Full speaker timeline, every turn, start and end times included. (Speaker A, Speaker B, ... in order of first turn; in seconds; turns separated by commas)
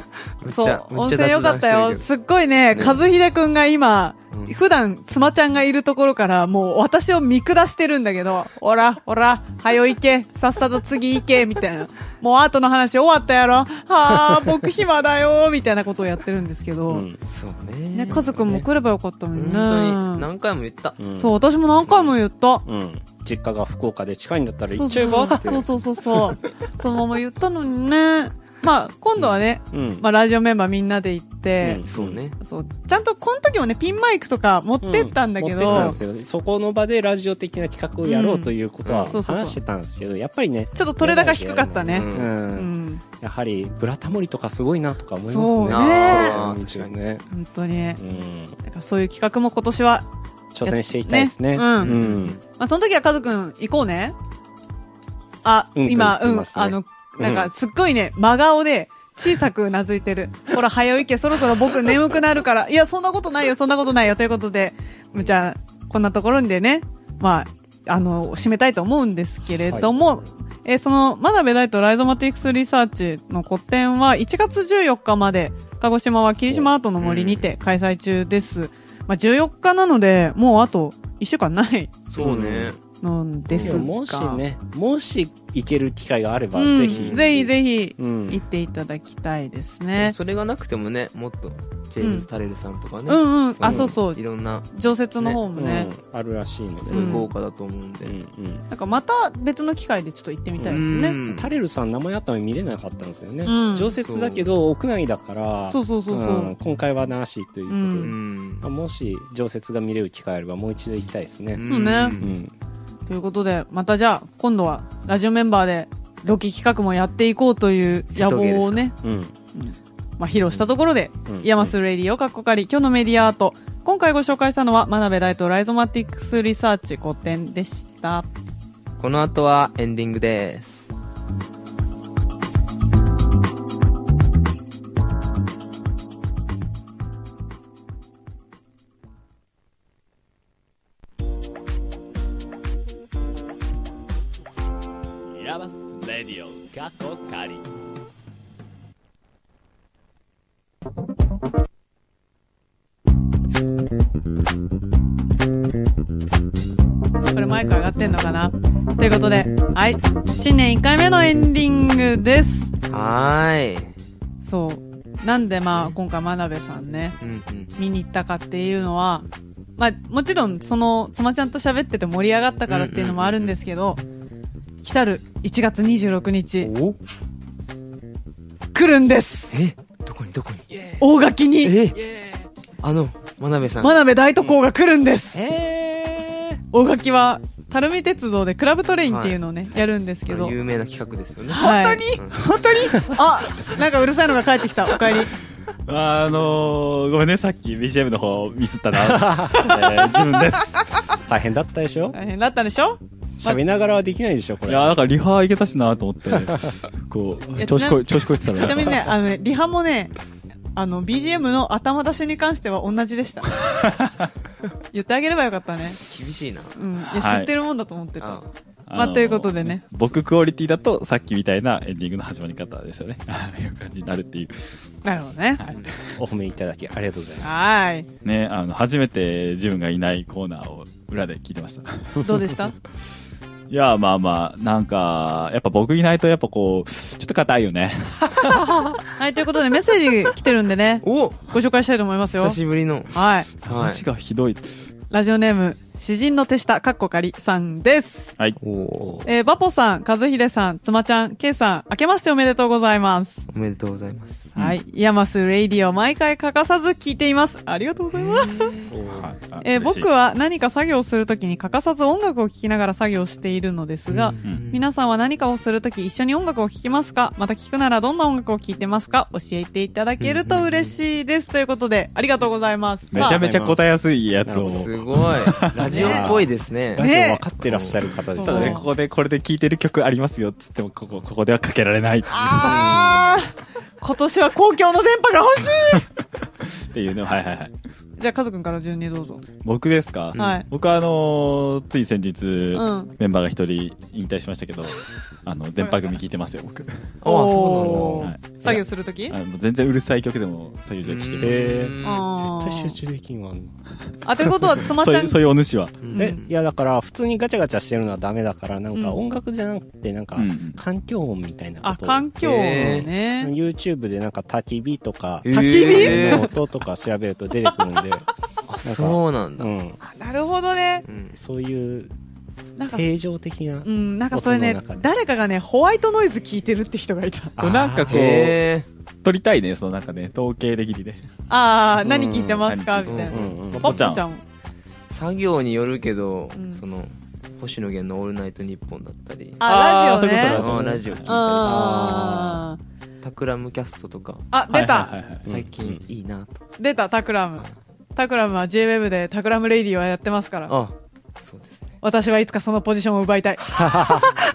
Speaker A: 0.4-2.1, Speaker B: 0.5-17.1, Speaker A: 2.7-3.0, Speaker C: 14.1-14.6, Speaker C: 16.9-17.2, Speaker A: 17.3-18.3, Speaker B: 17.9-20.3, Speaker C: 18.1-18.7, Speaker A: 19.4-21.0, Speaker C: 21.0-21.4, Speaker B: 21.2-22.6, Speaker A: 21.9-22.1, Speaker C: 22.7-25.6, Speaker B: 24.7-31.8, Speaker C: 29.7-30.1, Speaker C: 31.6-32.2, Speaker A: 31.9-32.4, Speaker B: 32.4-36.0, Speaker C: 34.8-47.2, Speaker A: 35.6-36.0, Speaker B: 38.0-38.5, Speaker A: 38.9-39.2, Speaker B: 39.1-39.6, Speaker B: 40.8-43.0, Speaker A: 41.9-42.3, Speaker B: 45.2-46.4, Speaker A: 45.6-46.9, Speaker B: 47.3-48.0, Speaker C: 48.0-48.6, Speaker B: 48.6-50.1, Speaker C: 50.5-52.4, Speaker B: 50.6-52.0, Speaker A: 51.8-52.4, Speaker B: 52.6-54.1, Speaker B: 55.4-81.9, Speaker C: 55.8-57.5, Speaker A: 77.0-77.5, Speaker A: 82.1-82.8, Speaker C: 82.2-82.8, Speaker B: 83.0-84.4, Speaker A: 83.5-83.9, Speaker C: 83.6-88.4, Speaker B: 86.6-90.2, Speaker A: 86.8-87.2, Speaker A: 90.0-94.7, Speaker B: 92.0-92.3, Speaker B: 93.1-94.2, Speaker C: 93.7-94.0, Speaker B: 94.7-95.9, Speaker C: 95.5-97.3, Speaker A: 96.9-98.2, Speaker B: 96.9-97.3, Speaker C: 98.0-98.7, Speaker B: 98.7-101.2, Speaker C: 100.6-111.7, Speaker A: 100.7-101.5, Speaker B: 103.5-104.0, Speaker A: 104.0-104.5, Speaker B: 105.7-106.5, Speaker B: 107.7-108.1, Speaker A: 108.0-108.7, Speaker A: 111.5-112.3, Speaker B: 111.7-112.2, Speaker C: 112.2-112.5, Speaker B: 113.1-119.0, Speaker A: 118.1-118.8, Speaker C: 119.0-119.3, Speaker B: 119.5-128.3, Speaker C: 121.3-121.7, Speaker A: 129.0-130.9, Speaker D: 145.3-147.7, Speaker B: 157.3-162.7, Speaker A: 162.9-163.9, Speaker B: 164.4-167.2, Speaker A: 167.2-167.8, Speaker B: 167.8-169.3, Speaker B: 169.8-174.0, Speaker A: 172.7-173.6, Speaker B: 174.8-176.7, Speaker A: 176.6-177.0, Speaker B: 178.7-179.5, Speaker A: 179.5-180.9, Speaker B: 181.0-181.8, Speaker A: 181.6-182.0, Speaker A: 182.8-184.1, Speaker B: 183.8-185.4, Speaker D: 185.4-186.4, Speaker B: 186.7-190.6, Speaker A: 189.1-189.4, Speaker A: 190.3-192.5, Speaker B: 191.5-195.3, Speaker D: 192.5-193.0, Speaker D: 195.9-200.9, Speaker C: 199.0-199.7, Speaker B: 199.6-199.9, Speaker C: 201.2-202.2, Speaker B: 202.1-203.6, Speaker C: 203.4-205.0, Speaker D: 204.7-209.2, Speaker C: 206.3-206.7, Speaker B: 207.6-210.1, Speaker B: 210.8-213.6, Speaker D: 213.7-214.3, Speaker B: 214.9-216.0, Speaker A: 216.0-216.8, Speaker B: 216.8-220.1, Speaker D: 217.1-217.5, Speaker A: 218.2-218.5, Speaker D: 218.9-224.8, Speaker B: 225.1-225.6, Speaker D: 225.6-226.1, Speaker A: 225.7-225.9, Speaker C: 226.2-227.5, Speaker B: 227.4-228.1, Speaker D: 228.2-232.4, Speaker B: 232.2-232.8, Speaker D: 233.7-238.7, Speaker C: 238.5-238.9, Speaker B: 239.2-242.6, Speaker A: 241.0-241.5, Speaker A: 242.3-244.0, Speaker B: 243.1-243.5, Speaker D: 243.7-244.8, Speaker B: 245.1-248.3, Speaker A: 248.6-249.3, Speaker B: 249.2-253.4, Speaker A: 253.5-254.5, Speaker B: 254.6-258.7, Speaker A: 258.1-259.0, Speaker C: 258.9-259.3, Speaker D: 259.1-260.1, Speaker B: 259.6-273.4, Speaker A: 264.1-264.8, Speaker A: 270.2-270.9, Speaker D: 273.1-276.4, Speaker C: 273.1-273.8, Speaker C: 274.4-275.0, Speaker A: 274.6-277.1, Speaker C: 275.8-278.9, Speaker B: 275.8-276.3, Speaker B: 277.0-277.4, Speaker A: 277.6-278.1, Speaker B: 278.4-278.9, Speaker D: 278.4-283.0, Speaker B: 282.3-286.1, Speaker A: 282.6-283.4, Speaker D: 286.8-287.7, Speaker B: 288.2-289.4, Speaker D: 289.6-297.1, Speaker A: 290.3-290.6, Speaker B: 290.4-290.7, Speaker B: 292.7-293.1, Speaker A: 297.2-298.3, Speaker B: 297.2-299.4, Speaker C: 297.9-298.2, Speaker D: 298.2-301.8, Speaker A: 301.0-302.3, Speaker C: 301.4-303.7, Speaker B: 302.0-303.0, Speaker B: 304.2-305.4, Speaker D: 304.8-306.0, Speaker A: 306.0-306.5, Speaker B: 306.1-306.4, Speaker C: 306.2-318.3, Speaker B: 308.9-309.2, Speaker D: 310.4-310.8, Speaker B: 311.8-313.5, Speaker A: 312.4-313.1, Speaker A: 315.4-316.5, Speaker B: 315.5-316.5, Speaker A: 318.7-319.7, Speaker C: 318.8-320.0, Speaker B: 320.0-321.1, Speaker A: 321.1-321.4, Speaker C: 321.3-322.1, Speaker B: 322.8-323.1, Speaker C: 322.9-325.1, Speaker B: 323.9-327.6, Speaker C: 327.6-328.6, Speaker D: 327.6-328.6, Speaker A: 328.1-328.9, Speaker D: 329.2-331.2, Speaker B: 331.5-334.4, Speaker C: 332.0-332.7, Speaker D: 332.6-334.2, Speaker A: 333.1-333.5, Speaker C: 333.3-334.0, Speaker A: 335.1-339.6, Speaker B: 336.6-336.8, Speaker B: 339.6-340.6, Speaker D: 339.6-341.9, Speaker A: 340.3-342.4, Speaker C: 340.5-342.6, Speaker B: 341.3-342.8, Speaker A: 343.2-344.5, Speaker B: 344.5-345.1, Speaker D: 344.7-345.5, Speaker C: 345.4-346.0, Speaker A: 345.5-346.6, Speaker B: 346.8-350.7, Speaker A: 350.7-351.9, Speaker B: 352.0-354.1, Speaker C: 353.8-354.3